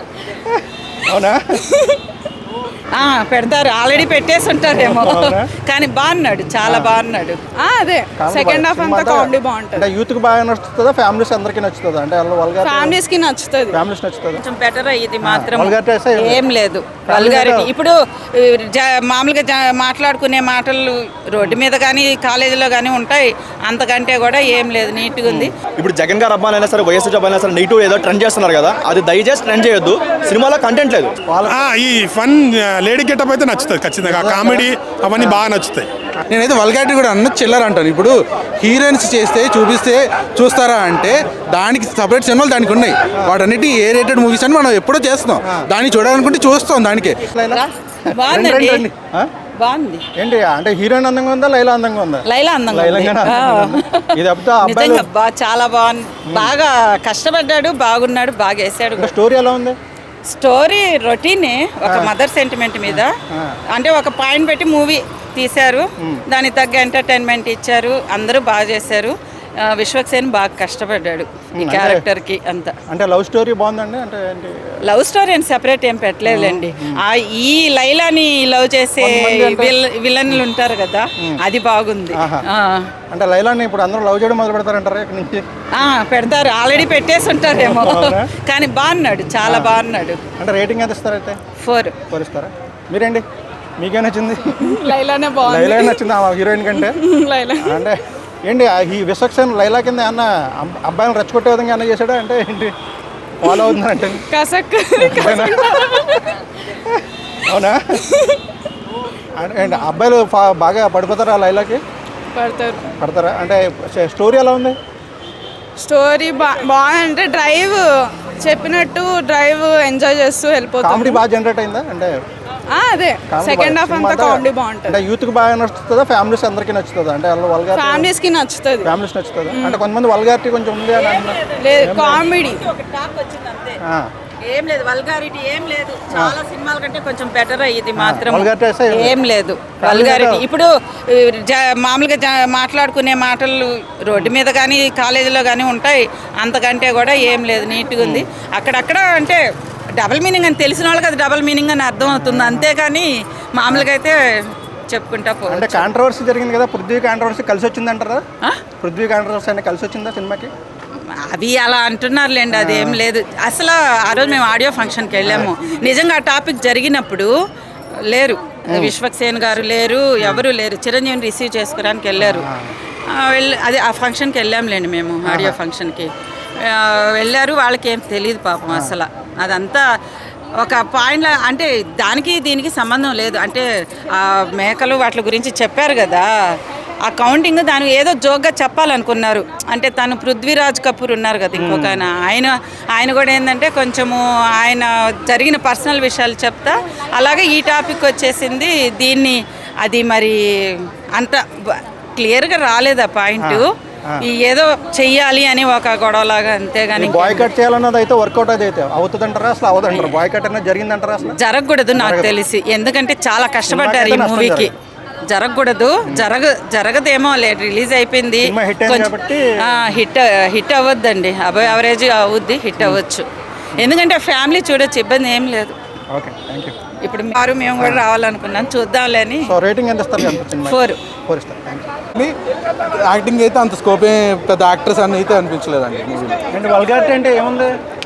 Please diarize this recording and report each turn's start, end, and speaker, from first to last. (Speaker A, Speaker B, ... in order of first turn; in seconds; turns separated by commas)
Speaker A: 0.5-1.6, Speaker B: 2.9-7.4, Speaker A: 4.7-5.5, Speaker A: 6.6-7.0, Speaker C: 7.6-9.9, Speaker A: 8.2-13.0, Speaker C: 12.6-13.8, Speaker A: 13.7-14.4, Speaker B: 14.4-25.5, Speaker A: 15.2-16.4, Speaker A: 17.1-17.7, Speaker D: 25.8-31.2, Speaker A: 31.3-31.7, Speaker E: 31.5-35.9, Speaker A: 34.0-35.5, Speaker F: 36.3-47.2, Speaker A: 47.3-47.6, Speaker B: 47.5-48.9, Speaker A: 48.2-49.3, Speaker B: 49.6-50.0, Speaker A: 50.2-55.1, Speaker B: 52.2-54.1, Speaker B: 54.6-59.1, Speaker A: 59.0-59.8, Speaker B: 60.3-63.1, Speaker A: 61.9-62.1, Speaker A: 62.9-63.6, Speaker B: 63.7-72.7, Speaker A: 71.6-72.0, Speaker A: 72.9-74.6, Speaker B: 74.9-82.9, Speaker A: 76.3-77.0, Speaker A: 79.0-79.7, Speaker A: 82.2-82.4, Speaker A: 83.1-85.4, Speaker B: 85.8-90.2, Speaker A: 87.5-88.3, Speaker A: 89.4-89.8, Speaker A: 90.4-91.4, Speaker B: 91.6-92.0, Speaker A: 92.1-93.2, Speaker A: 93.8-97.0, Speaker C: 94.5-96.1, Speaker C: 96.8-97.8, Speaker A: 97.6-102.7, Speaker A: 103.4-104.2, Speaker C: 104.3-106.1, Speaker A: 105.0-106.2, Speaker A: 106.9-108.0, Speaker A: 109.4-111.8, Speaker C: 112.3-112.9, Speaker A: 113.0-114.8, Speaker C: 115.8-121.2, Speaker A: 120.8-122.2, Speaker C: 122.7-125.0, Speaker A: 123.3-128.1, Speaker C: 127.7-129.0, Speaker A: 128.8-132.3, Speaker C: 129.5-129.8, Speaker C: 131.6-132.7, Speaker B: 132.4-133.8, Speaker B: 134.5-149.4, Speaker A: 138.0-139.2, Speaker A: 139.8-140.4, Speaker A: 148.0-148.3, Speaker B: 150.0-154.2, Speaker A: 152.0-152.7, Speaker B: 154.9-155.8, Speaker A: 155.5-158.2, Speaker A: 158.8-160.5, Speaker B: 161.3-167.3, Speaker A: 162.5-163.0, Speaker A: 165.2-165.5, Speaker B: 168.1-172.5, Speaker A: 172.2-172.7, Speaker B: 173.1-179.8, Speaker A: 175.3-175.6, Speaker A: 178.7-178.9, Speaker B: 180.6-186.3, Speaker B: 187.0-203.7, Speaker A: 191.6-192.0, Speaker A: 203.4-204.2, Speaker B: 204.2-207.5, Speaker A: 207.0-211.4, Speaker B: 209.9-210.2, Speaker B: 211.4-214.7, Speaker A: 212.0-212.3, Speaker A: 213.7-214.8, Speaker B: 215.3-219.1, Speaker A: 218.4-219.4, Speaker B: 219.7-223.2, Speaker B: 223.8-225.8, Speaker A: 226.1-226.8, Speaker B: 227.0-229.5, Speaker A: 229.4-231.9, Speaker B: 230.7-231.0, Speaker F: 232.2-236.4, Speaker A: 236.5-237.8